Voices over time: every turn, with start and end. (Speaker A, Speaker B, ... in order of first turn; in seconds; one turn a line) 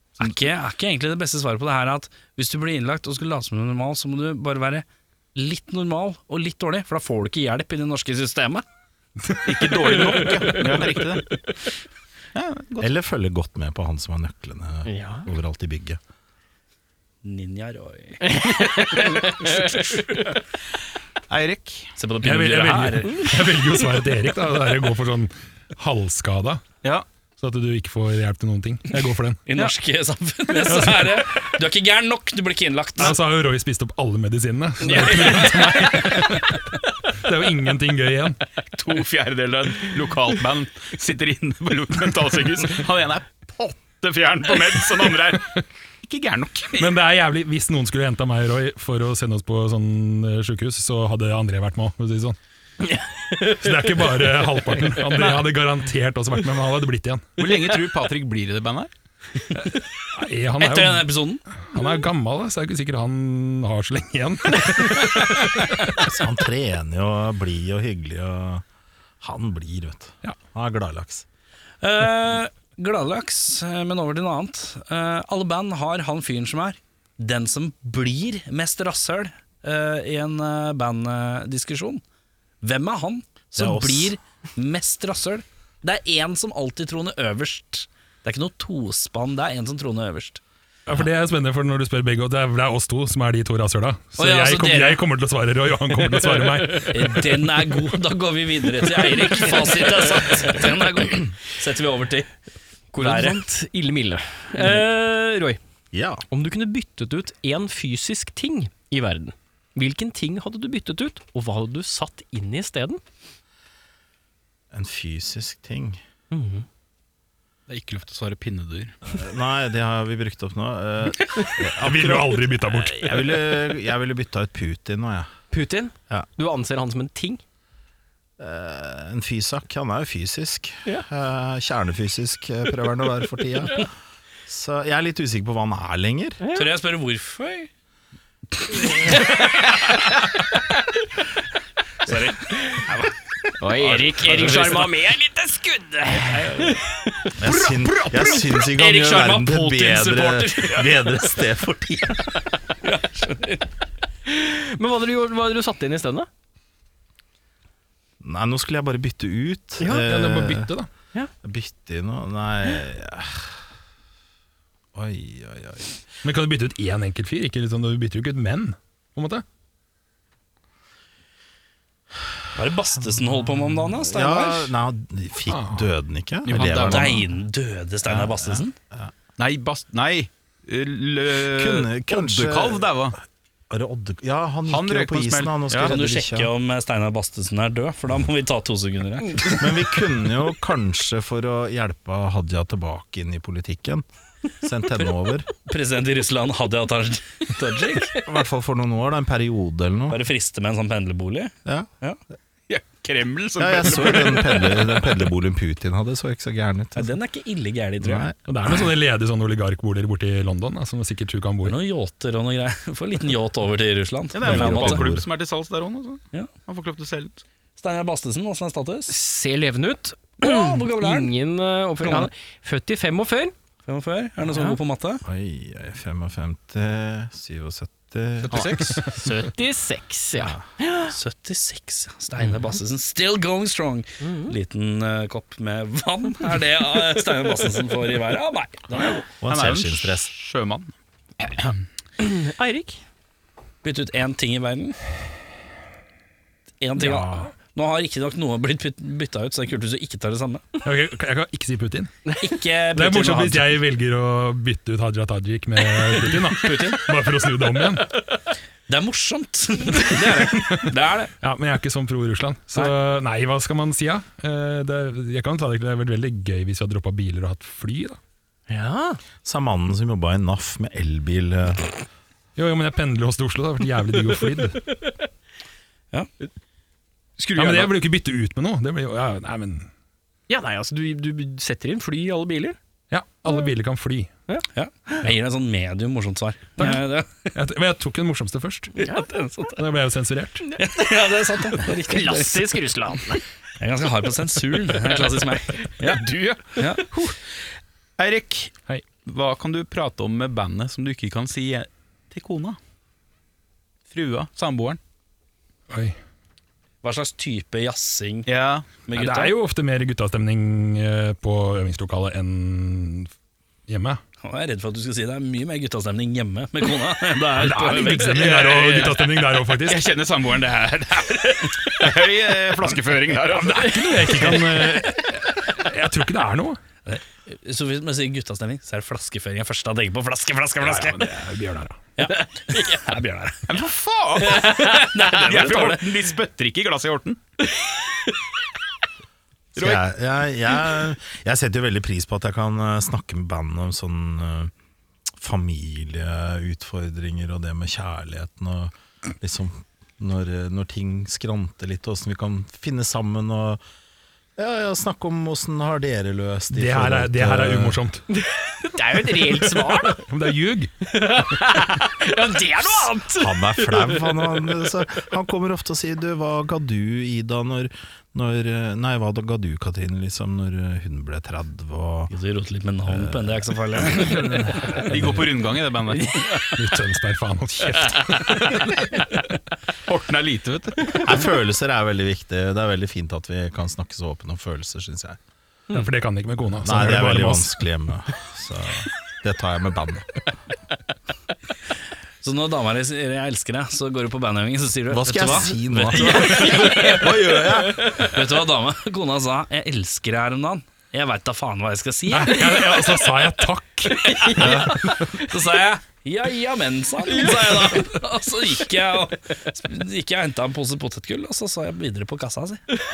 Speaker A: 0.2-8.6
Speaker B: 9.4-11.2
Speaker C: 10.3-10.7
Speaker B: 12.3-12.9
Speaker D: 12.8-16.0
Speaker C: 14.8-15.3
Speaker A: 17.2-20.3
Speaker C: 18.3-20.1
Speaker B: 21.3-21.9
Speaker A: 22.0-23.3
Speaker E: 22.2-26.6
Speaker E: 27.4-29.4
Speaker A: 29.5-33.1
Speaker E: 30.6-31.2
Speaker E: 33.0-38.4
Speaker A: 34.8-36.2
Speaker B: 38.7-47.0
Speaker E: 46.8-52.4
Speaker E: 53.5-57.3
Speaker B: 57.4-58.9
Speaker E: 60.1-61.1
Speaker A: 60.6-61.4
Speaker E: 61.6-66.0
Speaker D: 66.0-68.6
Speaker D: 69.2-71.2
Speaker A: 71.8-82.0
Speaker A: 82.6-90.4
Speaker D: 83.5-84.2
Speaker E: 90.8-97.4
Speaker A: 94.2-95.0
Speaker A: 96.8-102.3
Speaker C: 102.9-105.6
Speaker A: 103.0-103.4
Speaker D: 105.9-106.2
Speaker C: 106.3-113.0
Speaker D: 114.7-116.0
Speaker C: 116.3-116.7
Speaker B: 117.7-119.0
Speaker D: 119.0-125.3
Speaker E: 121.7-123.4
Speaker C: 125.5-127.4
Speaker D: 128.4-133.9
Speaker D: 134.5-136.4
Speaker C: 136.4-136.7
Speaker A: 136.5-137.7
Speaker C: 139.1-139.8
Speaker A: 142.0-143.1
Speaker C: 142.5-142.8
Speaker C: 143.6-147.3
Speaker A: 143.7-144.9
Speaker A: 146.1-146.8
Speaker D: 147.4-152.4
Speaker A: 147.5-151.2
Speaker A: 152.8-153.6
Speaker C: 154.2-156.3
Speaker D: 158.2-160.7
Speaker C: 159.8-160.1
Speaker E: 160.0-160.9
Speaker D: 161.4-163.5
Speaker D: 164.9-166.0
Speaker E: 166.2-169.4
Speaker A: 172.5-174.7
Speaker D: 173.3-177.3
Speaker E: 175.5-175.9
Speaker B: 176.4-177.2
Speaker A: 176.6-178.7
Speaker D: 178.0-179.1
Speaker B: 179.4-183.2
Speaker D: 181.5-183.1
Speaker D: 183.7-186.5
Speaker B: 184.7-185.9
Speaker A: 185.8-189.6
Speaker D: 189.5-194.0
Speaker D: 194.6-195.5
Speaker A: 194.9-198.2
Speaker D: 198.2-200.2
Speaker A: 200.1-202.2
Speaker B: 202.7-205.0
Speaker D: 203.6-207.2
Speaker A: 206.9-208.3
Speaker D: 208.0-208.4
Speaker E: 208.5-211.8
Speaker A: 211.6-215.1
Speaker B: 214.3-217.4
Speaker D: 214.4-215.2
Speaker A: 217.8-219.1
Speaker C: 219.1-223.5
Speaker A: 220.4-221.3
Speaker A: 222.0-222.3
Speaker A: 223.8-225.2
Speaker C: 224.5-224.8
Speaker D: 225.2-229.0
Speaker C: 228.5-231.1
Speaker A: 231.0-239.2
Speaker C: 234.2-234.5
Speaker D: 239.4-240.3
Speaker B: 239.5-240.9
Speaker B: 241.5-241.7
Speaker C: 242.2-243.0
Speaker A: 243.8-245.0
Speaker A: 246.8-250.7
Speaker E: 250.8-252.1
Speaker A: 252.4-253.8
Speaker E: 252.9-258.1
Speaker A: 256.4-257.1
Speaker A: 258.9-261.3
Speaker E: 260.0-268.2
Speaker C: 268.7-269.2
Speaker D: 269.4-271.9
Speaker E: 272.6-274.8
Speaker C: 277.4-277.9
Speaker E: 277.5-279.9
Speaker C: 280.5-282.8
Speaker E: 283.1-284.3
Speaker C: 284.5-285.2
Speaker A: 284.7-287.5
Speaker E: 286.8-287.0
Speaker E: 287.5-289.0
Speaker A: 288.9-289.8
Speaker E: 289.8-290.7
Speaker A: 290.8-292.8
Speaker C: 291.8-293.4
Speaker A: 293.8-297.1
Speaker C: 297.1-297.3
Speaker B: 298.2-302.8
Speaker B: 304.1-305.0
Speaker E: 305.9-306.2
Speaker A: 307.0-308.5
Speaker B: 308.4-308.9
Speaker A: 309.1-309.6
Speaker E: 309.1-313.3
Speaker E: 313.9-314.2
Speaker A: 314.4-318.6
Speaker E: 317.5-320.0
Speaker B: 318.3-319.2
Speaker B: 319.8-324.6
Speaker E: 323.5-326.8
Speaker A: 327.1-331.3
Speaker E: 330.8-332.0
Speaker A: 332.2-333.6
Speaker C: 332.7-333.0
Speaker B: 333.7-337.4
Speaker A: 334.4-336.1
Speaker B: 339.7-340.0
Speaker D: 339.8-344.7
Speaker D: 345.4-353.8
Speaker D: 354.6-358.0
Speaker E: 356.7-358.2
Speaker C: 358.3-360.2
Speaker E: 359.8-360.9
Speaker C: 361.1-364.8
Speaker D: 363.2-372.3
Speaker A: 372.3-374.7
Speaker D: 373.1-374.6
Speaker E: 375.0-375.5
Speaker B: 375.0-376.4
Speaker A: 376.3-376.8
Speaker E: 376.8-379.2
Speaker B: 380.0-381.2
Speaker D: 381.2-385.4
Speaker E: 385.9-387.8
Speaker D: 386.8-390.5
Speaker A: 392.4-403.2
Speaker D: 395.1-398.3
Speaker C: 396.4-397.1
Speaker E: 402.3-405.3
Speaker C: 404.2-405.1
Speaker A: 404.3-412.8
Speaker C: 407.4-408.0